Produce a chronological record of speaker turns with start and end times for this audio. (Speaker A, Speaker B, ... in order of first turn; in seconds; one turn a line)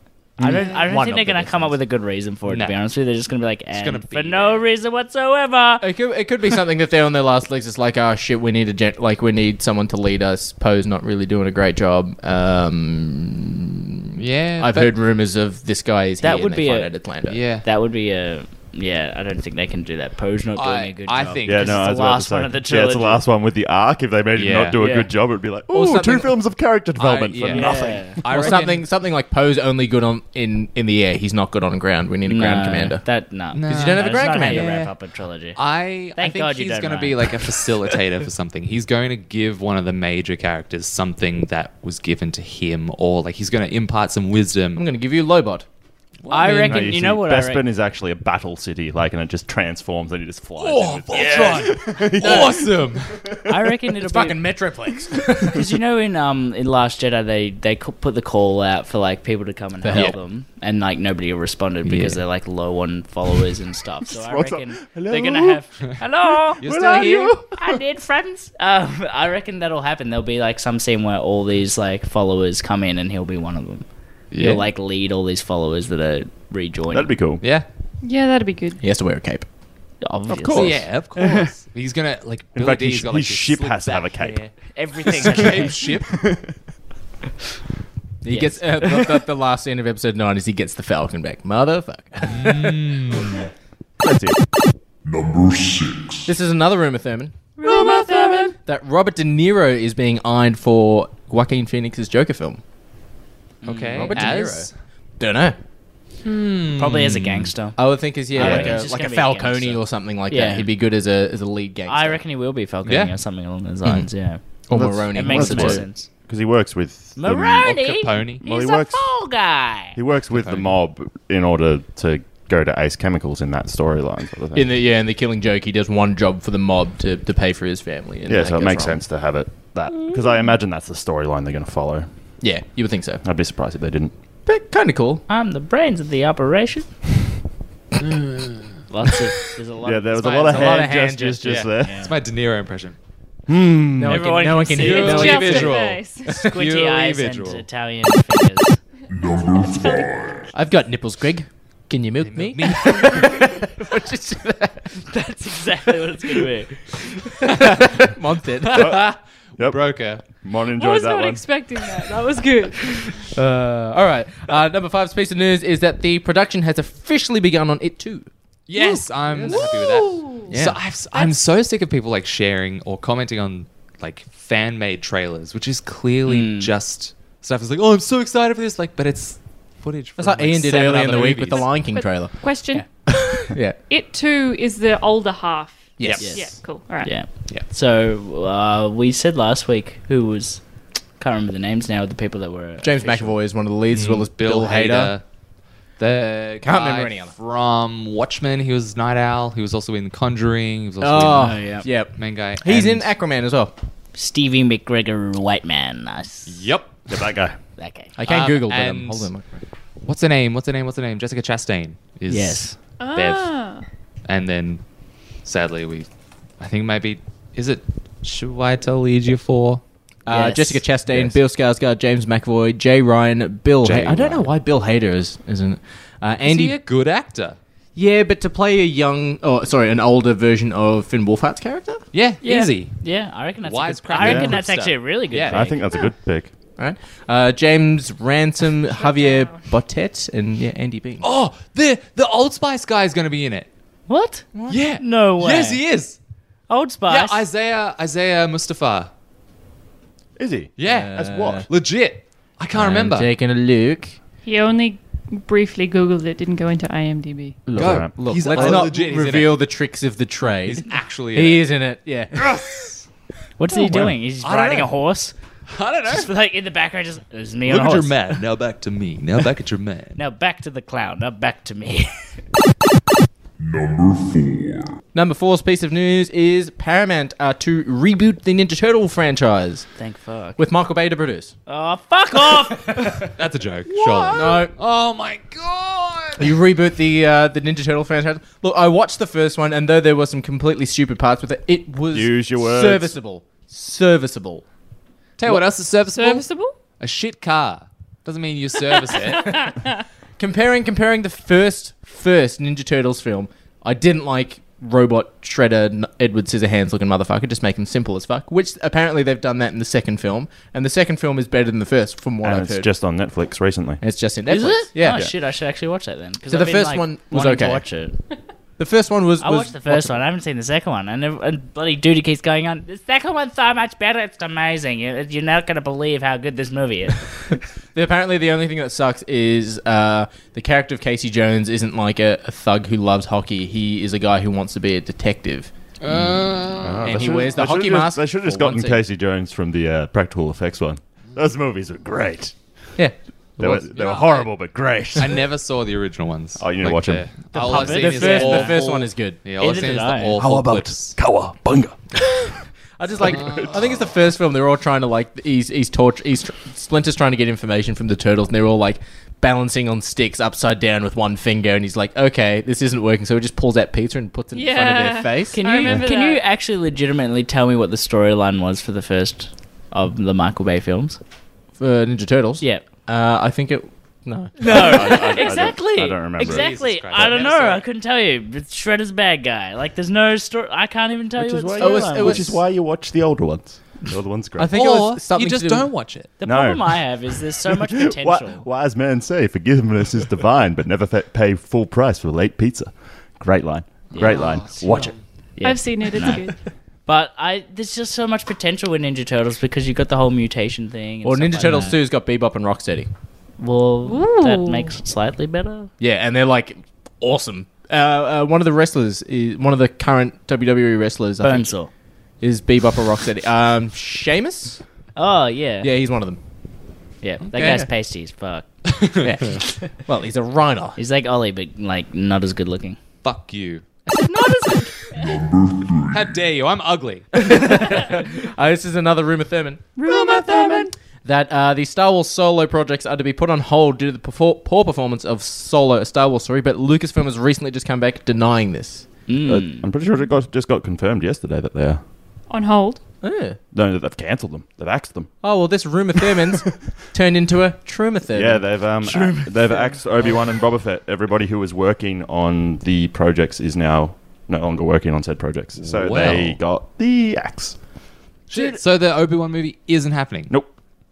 Speaker A: 0.4-0.7
Speaker B: 0.4-5.8
Speaker C: 0.5-1.8
Speaker D: 2.5-2.8
Speaker D: 3.7-4.7
Speaker C: 5.8-17.4
Speaker D: 14.2-14.9
Speaker B: 16.2-17.1
Speaker D: 17.3-17.7
Speaker B: 17.6-23.2
Speaker D: 20.6-21.9
Speaker A: 21.4-28.1
Speaker D: 24.4-24.8
Speaker B: 24.8-25.1
Speaker C: 25.7-26.4
Speaker D: 27.0-28.9
Speaker B: 27.5-28.2
Speaker C: 27.5-33.1
Speaker B: 32.2-35.6
Speaker D: 33.5-34.9
Speaker C: 33.7-34.8
Speaker D: 35.5-44.9
Speaker B: 36.1-38.0
Speaker C: 44.8-45.7
Speaker D: 46.2-47.0
Speaker B: 46.3-47.6
Speaker A: 46.5-53.4
Speaker D: 50.6-53.3
Speaker C: 51.2-52.5
Speaker B: 53.5-54.5
Speaker C: 54.0-55.6
Speaker B: 55.5-77.1
Speaker C: 59.8-60.1
Speaker D: 61.9-62.2
Speaker A: 64.1-66.1
Speaker A: 66.6-67.8
Speaker D: 66.6-67.4
Speaker D: 74.3-74.6
Speaker A: 76.9-77.4
Speaker D: 77.4-77.7
Speaker E: 78.0-78.8
Speaker C: 78.8-79.5
Speaker B: 80.0-81.5
Speaker A: 80.3-80.8
Speaker D: 80.5-84.5
Speaker A: 82.5-84.5
Speaker B: 84.2-85.8
Speaker D: 85.1-86.2
Speaker A: 85.1-86.5
Speaker C: 88.2-92.8
Speaker B: 88.3-89.1
Speaker D: 92.3-93.4
Speaker A: 94.0-94.4
Speaker F: 95.0-96.1
Speaker C: 96.3-97.4
Speaker E: 97.6-98.6
Speaker C: 98.5-102.6
Speaker B: 103.6-104.3
Speaker D: 103.6-104.7
Speaker C: 104.0-105.6
Speaker D: 106.2-107.5
Speaker B: 106.8-110.7
Speaker C: 107.8-112.2
Speaker D: 108.4-108.7
Speaker B: 111.9-116.1
Speaker D: 112.8-113.2
Speaker C: 114.7-115.8
Speaker A: 114.7-124.7
Speaker B: 117.2-120.0
Speaker D: 117.7-118.4
Speaker D: 120.3-120.7
Speaker C: 124.5-129.0
Speaker A: 128.3-132.1
Speaker C: 132.4-133.2
Speaker A: 133.2-134.1
Speaker C: 134.5-135.2
Speaker B: 135.3-136.9
Speaker D: 138.1-138.5
Speaker B: 138.9-140.8
Speaker A: 139.8-142.1
Speaker D: 140.2-140.8
Speaker C: 140.5-141.6
Speaker D: 141.4-143.0
Speaker B: 141.8-142.1
Speaker A: 143.5-144.2
Speaker C: 144.0-145.8
Speaker B: 144.1-145.8
Speaker D: 144.7-147.6
Speaker E: 144.8-146.4
Speaker B: 146.3-148.8
Speaker F: 149.2-150.0
Speaker E: 149.4-150.4
Speaker C: 150.5-155.0
Speaker D: 152.2-153.4
Speaker B: 155.1-157.0
Speaker C: 157.4-159.1
Speaker D: 158.7-160.3
Speaker A: 158.7-161.5
Speaker E: 160.7-163.3
Speaker C: 163.3-168.3
Speaker D: 168.7-181.8
Speaker E: 168.8-170.5
Speaker C: 170.5-170.8
Speaker E: 171.1-171.4
Speaker B: 176.3-176.7
Speaker C: 180.2-183.8
Speaker E: 181.7-182.9
Speaker E: 183.9-187.3
Speaker C: 186.0-186.5
Speaker D: 186.0-186.5
Speaker B: 186.2-190.7
Speaker B: 191.2-193.4
Speaker C: 192.8-195.1
Speaker D: 193.9-195.2
Speaker D: 196.0-203.1
Speaker C: 196.6-197.3
Speaker C: 201.0-203.7
Speaker B: 201.4-201.9
Speaker B: 204.2-206.7
Speaker D: 206.5-207.2
Speaker A: 207.1-207.6
Speaker B: 207.8-208.1
Speaker C: 208.2-209.6
Speaker D: 208.3-209.3
Speaker D: 210.0-213.6
Speaker B: 212.3-212.8
Speaker E: 213.0-213.9
Speaker D: 214.2-219.8
Speaker C: 220.3-226.8
Speaker B: 220.3-220.8
Speaker D: 221.1-221.4
Speaker D: 223.8-224.5
Speaker D: 226.4-227.6
Speaker C: 228.0-232.0
Speaker D: 232.1-233.0
Speaker E: 232.4-232.7
Speaker B: 232.5-235.8
Speaker D: 233.6-235.8
Speaker A: 234.2-234.6
Speaker A: 235.4-236.5
Speaker C: 236.8-241.2
Speaker E: 238.9-239.7
Speaker D: 241.2-243.7
Speaker B: 244.1-245.8
Speaker C: 244.5-244.8
Speaker D: 244.7-246.2
Speaker B: 246.7-247.5
Speaker D: 247.1-249.1
Speaker A: 250.4-251.7
Speaker D: 250.8-253.3
Speaker C: 250.8-251.7
Speaker C: 252.7-254.2
Speaker E: 254.4-257.7
Speaker C: 257.7-262.6
Speaker D: 257.7-259.6
Speaker A: 257.8-258.9
Speaker D: 260.6-261.7
Speaker D: 262.4-263.1
Speaker B: 263.6-265.3
Speaker D: 263.8-264.9
Speaker D: 265.7-266.3
Speaker B: 266.1-268.4
Speaker D: 267.6-270.2
Speaker B: 270.2-272.1
Speaker F: 273.6-274.9
Speaker C: 275.1-279.9
Speaker B: 280.0-280.6
Speaker C: 280.6-281.5
Speaker B: 281.7-283.1
Speaker D: 283.3-286.6
Speaker C: 284.3-284.7
Speaker C: 286.4-294.6
Speaker A: 292.1-293.2
Speaker D: 295.4-299.7
Speaker E: 296.1-296.8
Speaker E: 299.4-299.9
Speaker C: 300.4-312.9
Speaker A: 312.4-314.0
Speaker C: 314.0-315.2
Speaker B: 314.5-318.2
Speaker A: 315.1-315.3
Speaker C: 316.5-317.9
Speaker C: 318.8-320.2
Speaker B: 319.4-327.5
Speaker C: 327.9-335.7
Speaker D: 336.0-337.4
Speaker A: 336.1-342.6
Speaker C: 337.0-339.0
Speaker C: 343.0-343.9
Speaker A: 343.6-345.5
Speaker D: 343.9-344.5
Speaker D: 345.1-351.2
Speaker A: 346.6-347.9
Speaker B: 347.5-348.9
Speaker C: 347.6-349.4
Speaker B: 349.6-350.4
Speaker A: 350.4-352.4
Speaker C: 353.0-365.6
Speaker D: 353.2-354.0
Speaker A: 353.4-353.7
Speaker E: 364.5-366.4
Speaker B: 365.5-371.2
Speaker C: 371.8-375.0
Speaker B: 374.6-382.5
Speaker A: 374.6-377.3
Speaker D: 376.4-377.9
Speaker A: 381.4-384.7
Speaker C: 381.8-382.6
Speaker C: 384.6-385.9
Speaker D: 384.7-386.3
Speaker B: 386.4-388.6
Speaker A: 386.4-395.2
Speaker D: 394.1-395.2
Speaker B: 394.1-402.0
Speaker E: 395.6-396.7
Speaker C: 401.2-403.1
Speaker B: 403.6-405.9
Speaker E: 404.0-405.0
Speaker C: 406.0-411.8
Speaker B: 411.4-411.9
Speaker C: 412.4-414.8
Speaker B: 415.2-415.9
Speaker C: 415.8-416.4
Speaker B: 417.2-418.7
Speaker D: 417.5-417.9
Speaker D: 418.9-419.6
Speaker C: 419.2-421.0
Speaker B: 421.0-423.0
Speaker D: 423.2-424.0
Speaker E: 424.2-425.3
Speaker F: 425.3-426.1
Speaker D: 426.1-427.6
Speaker C: 427.4-430.0
Speaker E: 430.0-430.9
Speaker D: 430.3-430.7
Speaker C: 431.2-439.1
Speaker B: 439.3-439.9
Speaker A: 439.4-442.0
Speaker E: 442.5-443.0
Speaker C: 443.2-443.6
Speaker A: 443.7-445.3
Speaker C: 445.4-448.7
Speaker A: 448.3-457.8
Speaker B: 449.0-449.9
Speaker D: 455.8-456.6
Speaker D: 458.5-460.5
Speaker C: 458.5-458.8
Speaker A: 460.5-460.8